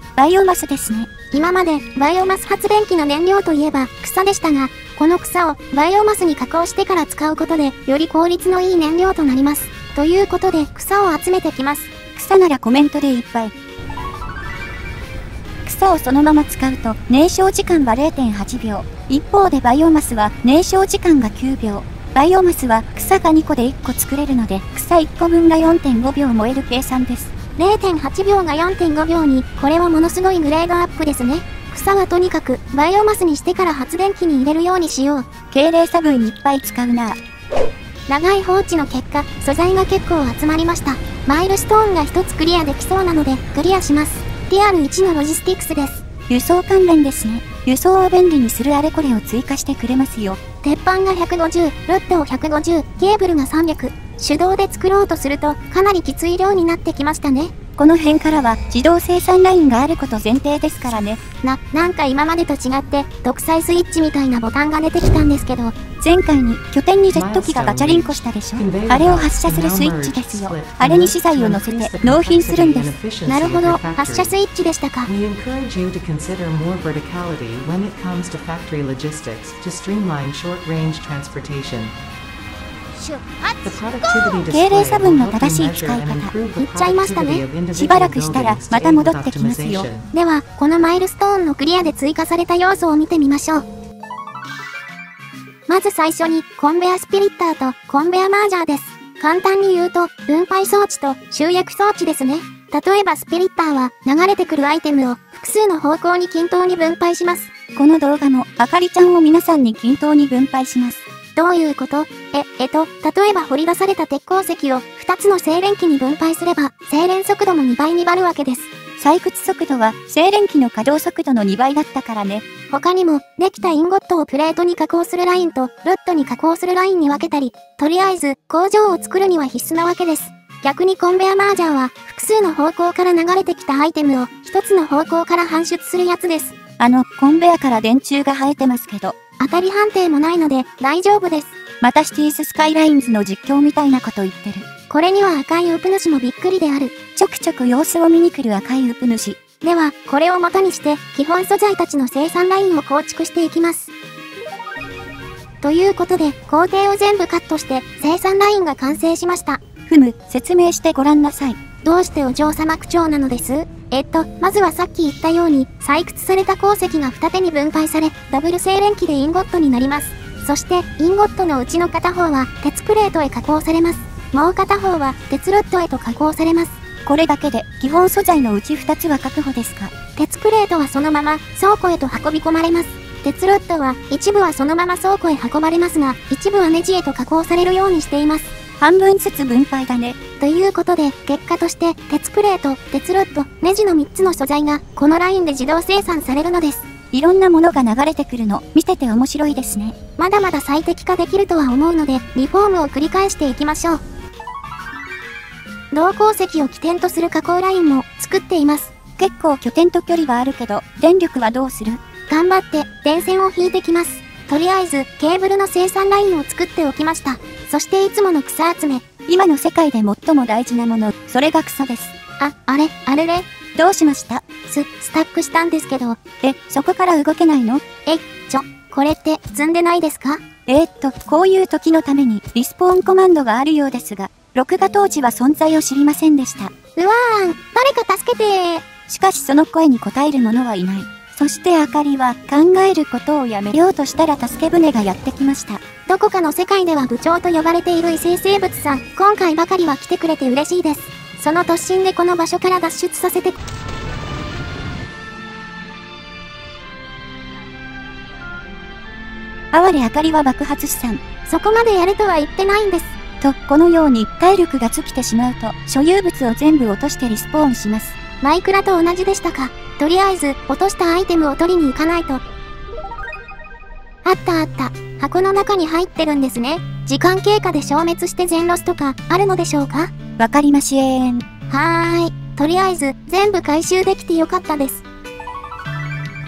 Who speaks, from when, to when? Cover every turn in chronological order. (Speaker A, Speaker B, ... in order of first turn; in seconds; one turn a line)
Speaker A: 0.2-1.1
Speaker B: 1.3-11.9
Speaker A: 12.2-13.5
Speaker A: 15.7-27.3
Speaker B: 27.6-35.3
Speaker A: 35.5-37.2
Speaker B: 38.1-46.0
Speaker A: 46.3-50.4
Speaker B: 50.6-57.5
Speaker A: 57.8-61.2
Speaker B: 61.4-65.8
Speaker A: 66.0-73.0
Speaker C: 67.1-74.4
Speaker B: 73.2-75.1
Speaker C: 75.1-81.9
Speaker C: 83.6-90.1
Speaker A: 84.5-86.3
Speaker B: 86.6-87.5
Speaker A: 87.7-89.9
Speaker B: 90.1-93.7
Speaker B: 95.7-107.5
Speaker A: 107.8-111.0
Speaker B: 111.4-118.7
Speaker A: 119.0-122.4
Speaker B: 122.7-136.6
Speaker A: 136.8-139.2
Speaker B: 139.4-141.6
Speaker A: 141.8-144.7
Speaker B: 144.9-146.9
Speaker A: 147.2-149.4
Speaker B: 149.6-153.9
Speaker B: 155.6-159.6
Speaker A: 159.9-161.6
Speaker B: 161.8-176.8
Speaker A: 177.1-179.9
Speaker B: 180.2-188.5
Speaker A: 188.8-190.2
Speaker B: 190.4-196.8
Speaker A: 197.1-200.0
Speaker B: 200.2-204.0
Speaker B: 205.9-208.9
Speaker A: 209.2-212.0
Speaker B: 212.3-219.0
Speaker A: 219.3-222.1
Speaker B: 222.4-223.5
Speaker A: 223.8-224.4
Speaker B: 224.7-226.2
Speaker A: 226.4-227.8
Speaker B: 228.1-230.4
Speaker A: 230.7-236.7
Speaker B: 237.0-238.9
Speaker A: 239.1-245.8
Speaker B: 246.1-253.6
Speaker A: 259.7-261.2
Speaker B: 261.5-263.2
Speaker A: 263.4-268.2
Speaker B: 268.4-272.4
Speaker B: 274.2-280.1
Speaker A: 280.4-281.4
Speaker B: 281.7-285.0